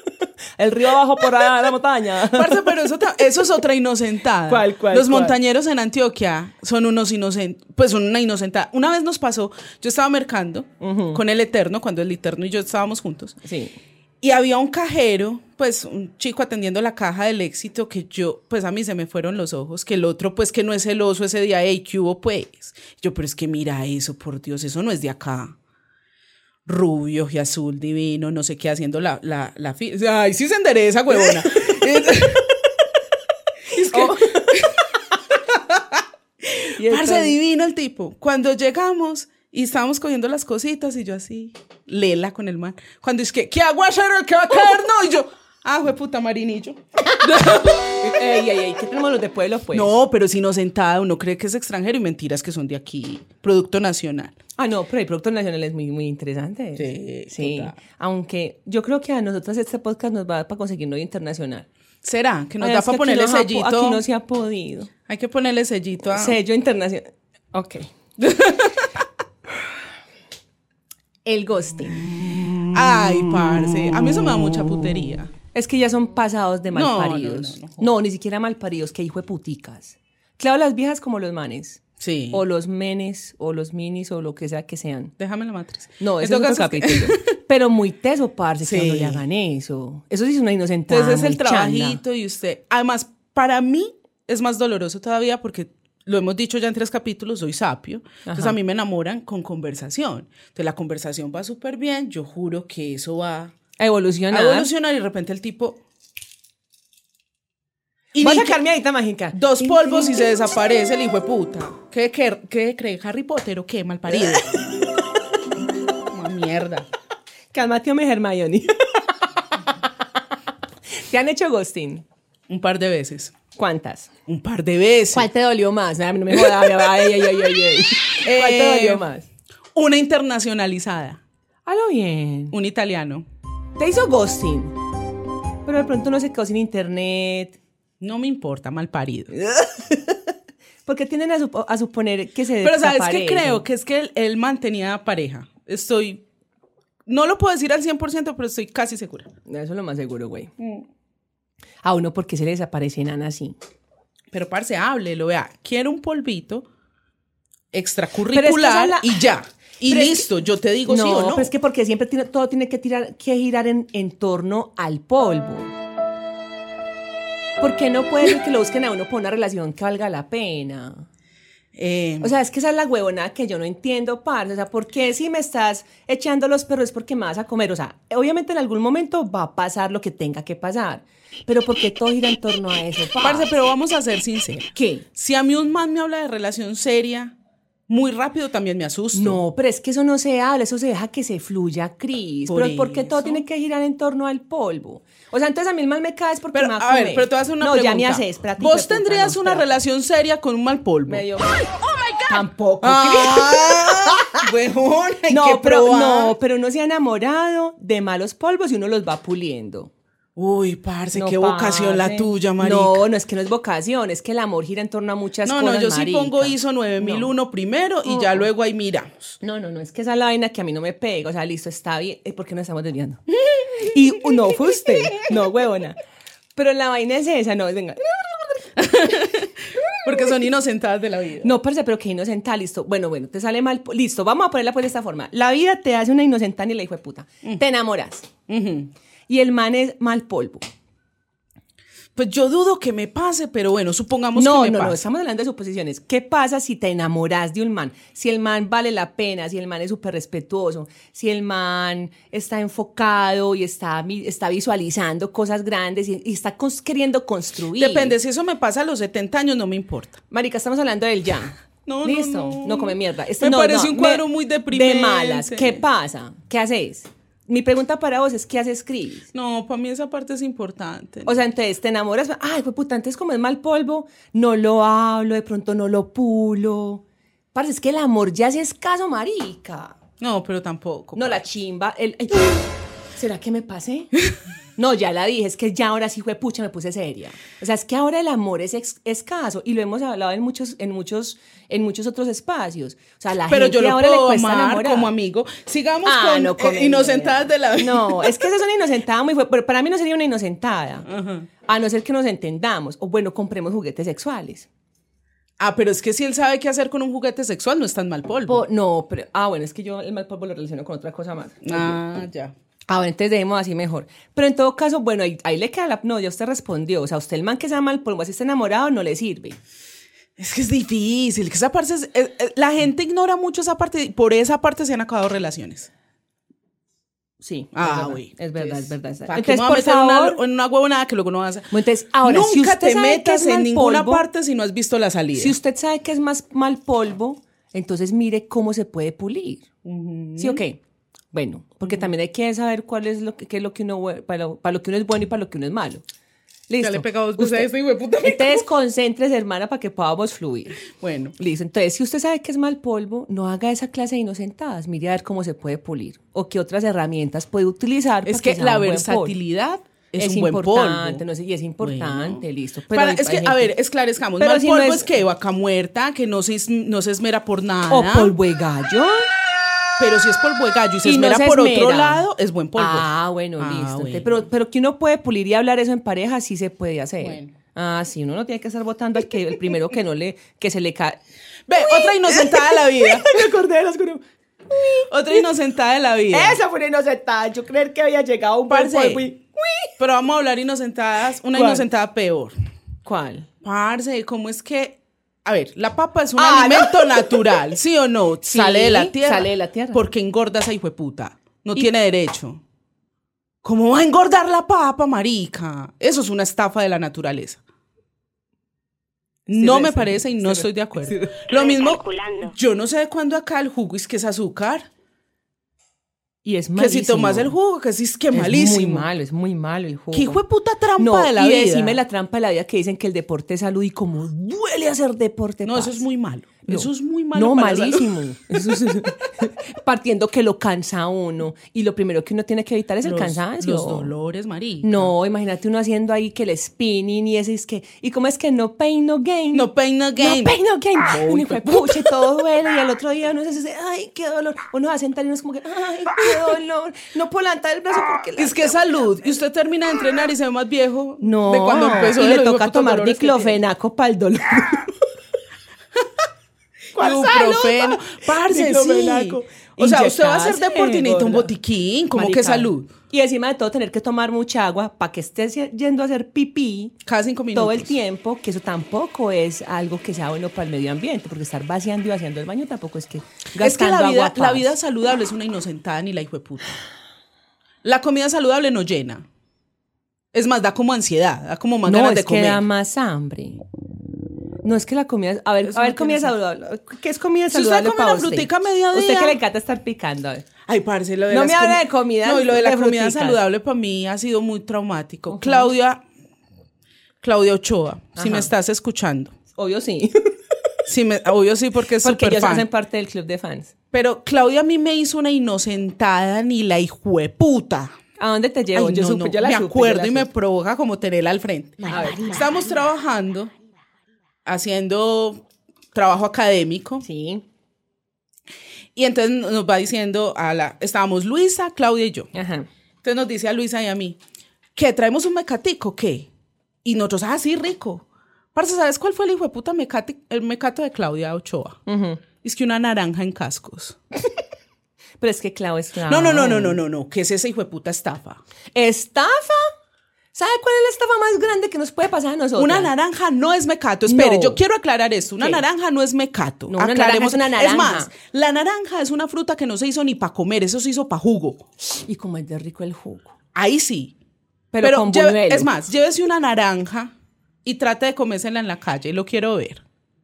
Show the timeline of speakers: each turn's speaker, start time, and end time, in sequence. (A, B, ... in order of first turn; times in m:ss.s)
0:00.6-0:02.8 A
0:02.2-0:13.4 B
0:04.5-0:05.4 A
0:10.8-0:11.2 A
0:13.4-0:13.8 A
0:14.2-0:25.6 B
0:26.6-0:32.6 B
0:33.7-0:48.1 B
0:33.7-0:34.6 A
0:36.7-0:37.3 A
0:47.1-0:49.9 A
0:49.7-0:54.4 B
0:54.6-1:01.7 A
0:56.8-0:57.8 B
1:02.0-1:04.0 B
1:02.6-1:04.9 A
1:05.1-1:06.4 B
1:06.1-1:07.9 A
1:08.2-1:08.9 B
1:11.2-1:12.3 A
1:12.7-1:15.3 B
1:15.5-1:25.1 A
1:16.7-1:17.9 B
1:22.0-1:22.4 B
1:25.2-1:27.2 B
1:26.0-1:32.0 A
1:28.6-1:29.2 B
1:30.9-1:43.5 B
1:38.2-1:38.6 A
1:43.8-1:44.7 A
1:44.3-1:45.8 B
1:48.1-1:48.6 B
1:48.2-1:50.2 A
1:49.3-1:54.5 B
1:56.1-1:56.8 B
1:57.5-1:59.1 A
2:00.9-2:02.0 A
2:02.5-2:03.4 B
2:03.5-2:04.1 A
2:04.3-2:05.3 B
2:05.1-2:09.3 A
2:06.3-2:06.8 B
2:08.2-2:09.0 B
2:09.7-2:11.2 B
2:11.6-2:12.5 A
2:12.5-2:13.2 B
2:13.8-2:14.7 A
2:15.6-2:17.6 A
2:18.0-2:19.3 B
2:19.3-2:20.3 A
2:20.8-2:23.6 A
2:22.6-2:26.2 B
2:27.0-2:29.3 B
2:29.4-2:30.5 A
2:30.6-2:30.8 B
2:31.8-2:33.6 A
2:34.3-2:36.6 B
2:37.7-2:41.5 B
2:38.3-2:39.2 A
2:39.9-2:40.3 A
2:40.8-2:45.7 A
2:47.6-2:51.1 A
2:51.7-2:52.3 B
2:52.2-3:03.5 A
3:03.2-3:07.3 B
3:04.7-3:05.0 A
3:07.9-3:09.4 B
3:09.1-3:19.7 A
3:12.5-3:13.4 B
3:16.5-3:21.2 B
3:21.1-3:21.6 A
3:22.3-3:24.4 A
3:22.8-3:26.3 B
3:25.3-3:29.9 A
3:30.4-3:33.0 B
3:31.1-3:37.3 A
3:35.4-3:39.4 B
3:38.0-3:38.5 A
3:39.4-3:43.2 A
3:43.7-3:46.0 A
3:46.6-3:48.7 A
3:48.8-3:51.5 B
3:51.4-3:58.3 A
3:58.5-3:58.9 B
3:59.3-4:00.6 A
4:02.2-4:05.0 B
4:04.3-4:18.1 A
4:17.8-4:20.2 B
4:20.3-4:29.3 A
4:21.8-4:25.8 B
4:29.3-4:31.3 B
4:31.2-4:37.0 A
4:37.5-4:40.0 A
4:40.2-4:41.4 B
4:41.1-4:44.1 A
4:44.8-4:55.1 A
4:53.5-4:58.5 B
4:56.0-5:01.1 A
5:01.1-5:01.5 B
5:01.6-5:04.7 A
5:05.6-5:08.6 B
5:08.5-5:12.0 A
5:11.6-5:12.5 B
5:12.9-5:19.6 A
5:20.4-5:25.9 B
5:27.4-5:30.4 A
5:27.7-5:31.7 B
5:31.7-5:34.3 A
5:32.2-5:35.6 B
5:35.4-5:39.6 A
5:39.8-5:40.6 B
5:40.4-5:40.8 A
5:41.3-5:46.0 A
5:46.7-5:47.7 A
5:46.8-5:48.6 B
5:48.2-5:50.8 A
5:50.9-5:51.4 B
5:51.4-5:59.4 A
5:58.2-6:01.2 B
6:00.2-6:03.7 A
6:01.8-6:08.4 B
6:04.4-6:05.1 A
6:07.9-6:09.3 A
6:10.0-6:14.5 B
6:11.0-6:12.2 A
6:12.8-6:21.2 A
6:17.2-6:17.5 B
6:21.7-6:23.5 B
6:21.8-6:25.4 A
6:25.1-6:26.6 B
6:26.3-6:29.9 A
6:28.7-6:29.3 B
6:30.0-6:32.5 B
6:31.5-6:31.8 A
6:33.0-6:33.5 A
6:33.6-6:42.6 B
6:36.4-6:37.6 A
6:38.4-6:40.0 A
6:43.6-6:47.6 B
6:49.5-6:51.5 A
6:49.5-6:54.9 B
6:56.4-6:57.5 A
6:56.8-6:59.1 B
6:58.3-7:00.4 A
7:00.1-7:02.0 B
7:01.0-7:06.0 A
7:05.6-7:08.1 B
7:06.7-7:14.1 A
7:13.0-7:15.1 B
7:14.8-7:28.8 A
7:19.5-7:22.2 B
7:28.4-7:33.6 B
7:31.2-7:35.0 A
7:36.9-7:41.5 A
7:36.9-7:42.9 B
7:42.1-7:46.9 A
7:47.0-7:48.0 B
7:47.5-7:54.7 A
7:53.6-7:56.8 B
7:57.8-7:59.2 B
8:00.3-8:02.6 B
8:01.8-8:03.6 A
8:04.6-8:10.5 A
8:05.6-8:06.3 B
8:07.5-8:09.4 B
8:10.6-8:16.0 B
8:11.3-8:13.4 A
8:15.3-8:15.7 A
8:17.2-8:19.3 B
8:18.2-8:18.5 A
8:19.5-8:20.4 A
8:20.9-8:22.7 B
8:22.0-8:23.7 A
8:23.9-8:27.9 B
8:28.2-8:30.3 A
8:28.7-8:33.5 B
8:31.9-8:32.4 A
8:34.4-8:35.4 B
8:35.9-8:37.0 B
8:37.0-8:37.4 A
8:39.0-8:42.3 B
8:42.3-8:42.7 A
8:43.0-8:44.2 B
8:44.8-8:46.3 B
8:46.8-8:51.8 B
8:51.8-8:52.2 A
8:52.4-8:54.0 B
8:55.2-8:56.8 A
8:56.1-8:58.4 B
8:58.7-8:59.7 A
9:00.3-9:02.9 A
9:02.6-9:11.6 B
9:04.0-9:04.6 A
9:06.7-9:08.1 A
9:11.8-9:13.3 A
9:13.5-9:14.1 B
9:14.7-9:15.7 A
9:14.8-9:17.1 B
9:17.6-9:19.8 B